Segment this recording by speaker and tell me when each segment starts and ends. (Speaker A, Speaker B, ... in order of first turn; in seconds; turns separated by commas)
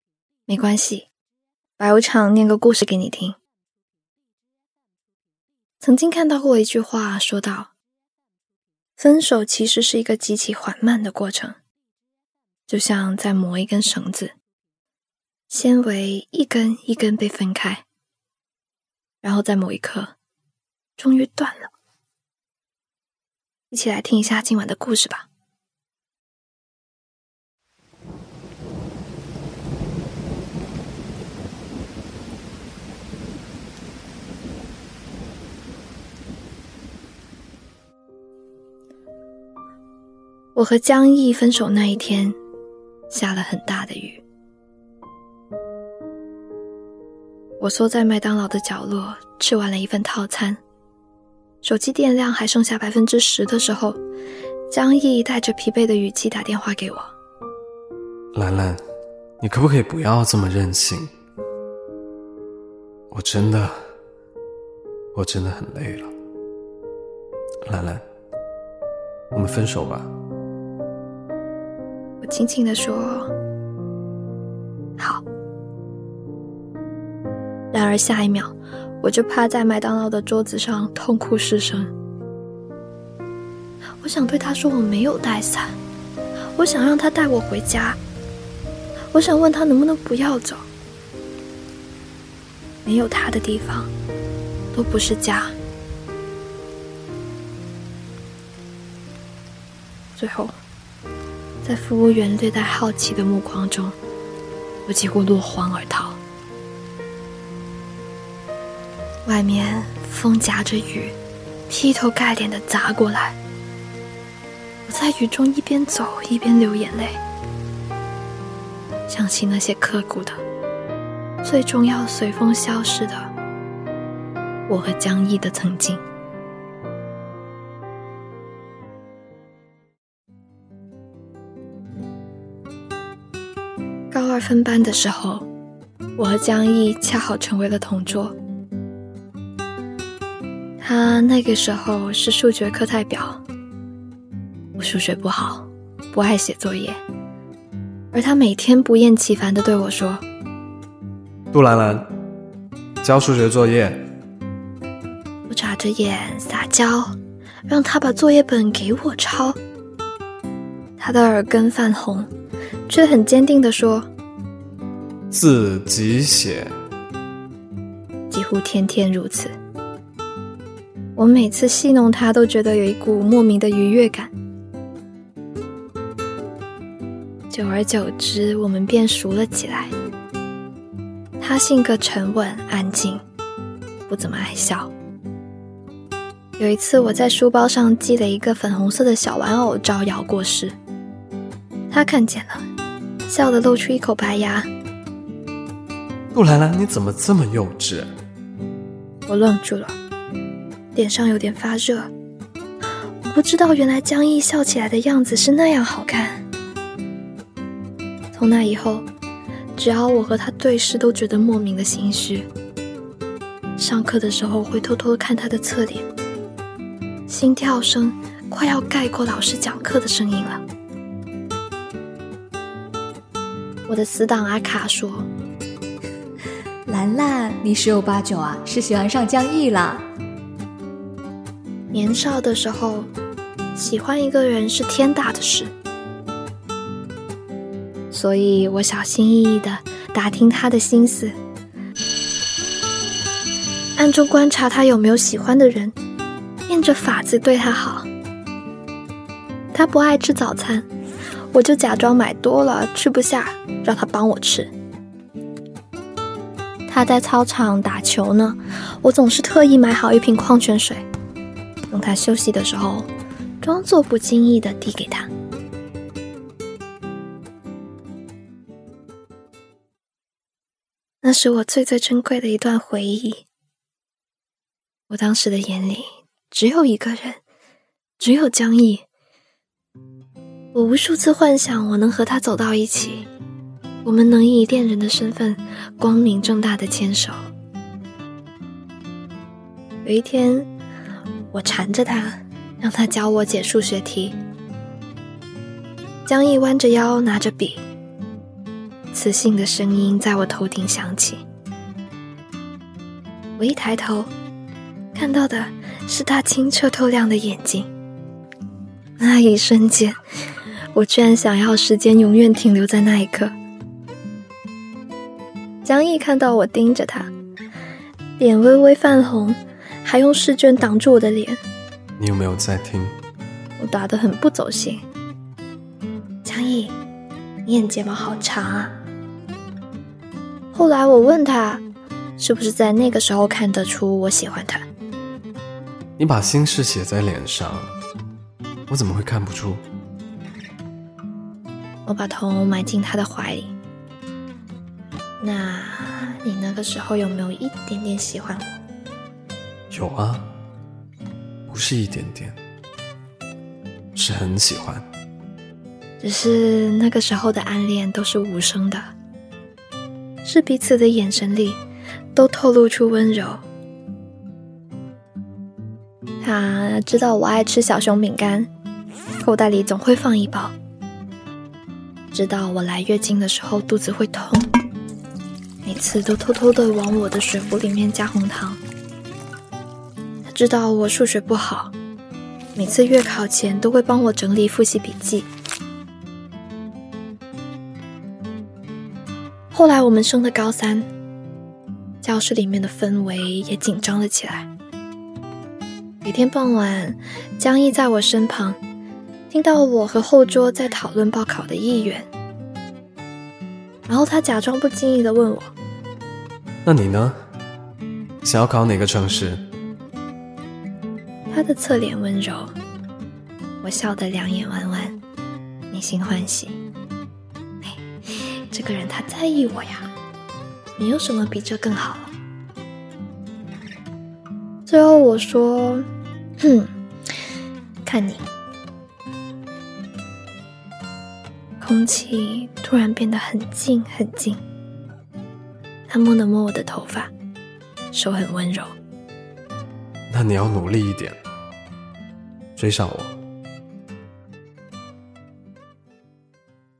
Speaker A: 0.5-1.1, Speaker A: 1.8-3.4, Speaker A: 5.8-7.7, Speaker A: 9.0-11.6, Speaker A: 12.7-14.3, Speaker A: 15.5-17.8, Speaker A: 19.2-20.1, Speaker A: 21.0-21.7, Speaker A: 23.7-25.3, Speaker A: 40.5-42.4, Speaker A: 43.1-44.2, Speaker A: 47.6-50.6, Speaker A: 51.6-54.0, Speaker A: 54.7-57.1, Speaker B: 58.3-58.8, Speaker B: 59.4-61.1, Speaker B: 63.1-63.9, Speaker B: 65.1-66.1, Speaker B: 67.7-68.0, Speaker B: 69.3-70.1, Speaker A: 72.2-73.3, Speaker A: 75.0-75.2, Speaker A: 77.7-81.9, Speaker A: 84.0-85.8, Speaker A: 86.6-88.0, Speaker A: 89.1-90.7, Speaker A: 92.8-93.9, Speaker A: 94.7-95.6, Speaker A: 100.2-100.6, Speaker A: 101.6-104.0, Speaker A: 104.9-106.2, Speaker A: 109.2-111.2, Speaker A: 111.7-113.4, Speaker A: 114.9-117.2, Speaker A: 119.1-120.4, Speaker A: 121.4-123.3, Speaker A: 124.7-126.0, Speaker A: 134.1-135.5, Speaker A: 136.2-138.4, Speaker A: 140.8-143.4, Speaker A: 144.8-147.0, Speaker A: 148.1-150.2, Speaker B: 151.5-152.1, Speaker B: 153.0-154.1, Speaker A: 155.5-157.2, Speaker A: 157.7-159.6, Speaker A: 161.0-162.3, Speaker A: 162.9-164.1, Speaker B: 165.3-166.7, Speaker A: 168.3-169.6, Speaker A: 171.2-174.3, Speaker A: 177.5-179.9, Speaker A: 181.4-183.2, Speaker A: 184.1-184.9, Speaker A: 186.6-190.8, Speaker A: 191.9-192.7, Speaker A: 193.3-194.7, Speaker B: 196.3-198.1, Speaker A: 199.3-200.0, Speaker A: 200.9-202.1, Speaker A: 203.2-206.4, Speaker A: 208.3-209.1, Speaker A: 209.8-212.5, Speaker A: 213.8-216.1, Speaker A: 217.3-220.6, Speaker A: 223.9-225.3, Speaker C: 226.9-230.1, Speaker A: 231.9-233.1, Speaker A: 233.8-235.7, Speaker A: 238.1-241.3, Speaker A: 244.0-245.9, Speaker A: 246.7-248.1, Speaker A: 249.7-250.9, Speaker A: 251.5-254.7, Speaker A: 256.9-261.0, Speaker A: 261.9-263.1, Speaker A: 263.6-265.3, Speaker A: 271.2-273.4, Speaker A: 275.1-277.4, Speaker A: 278.2-279.1, Speaker A: 280.7-283.3, Speaker A: 284.0-287.4, Speaker A: 290.1-290.7, Speaker A: 291.5-294.4, Speaker A: 296.3-297.8, Speaker A: 299.1-301.4, Speaker A: 303.6-304.3, Speaker A: 305.1-307.9, Speaker A: 309.2-310.2, Speaker A: 310.9-313.5, Speaker A: 315.8-317.3, Speaker A: 318.4-321.6, Speaker B: 322.2-323.2, Speaker A: 323.8-325.0, Speaker A: 326.4-327.0, Speaker A: 327.6-329.0, Speaker A: 330.7-331.8, Speaker A: 332.4-334.9, Speaker B: 336.2-337.9, Speaker B: 338.9-339.8, Speaker A: 342.1-343.7, Speaker A: 345.4-348.8, Speaker B: 349.9-350.5, Speaker B: 351.7-352.6, Speaker B: 354.1-355.1, Speaker A: 356.2-359.1, Speaker A: 360.4-361.8, Speaker A: 362.3-363.6, Speaker A: 366.4-368.7, Speaker A: 369.4-370.8, Speaker A: 372.3-374.7, Speaker A: 375.8-378.8, Speaker A: 380.5-381.9, Speaker A: 382.8-385.5, Speaker A: 389.7-391.1, Speaker A: 392.2-394.7, Speaker A: 396.2-398.8, Speaker A: 399.5-402.3, Speaker A: 404.1-405.7, Speaker B: 406.9-407.4, Speaker B: 408.4-409.6, Speaker A: 411.5-412.8, Speaker A: 413.8-415.2, Speaker A: 415.9-416.8, Speaker A: 417.8-420.1, Speaker A: 421.0-422.3, Speaker A: 424.9-426.1, Speaker A: 426.6-426.9, Speaker A: 428.0-428.5, Speaker A: 431.8-434.6, Speaker A: 436.1-437.3, Speaker A: 438.1-438.9, Speaker B: 440.3-441.4, Speaker B: 442.8-443.4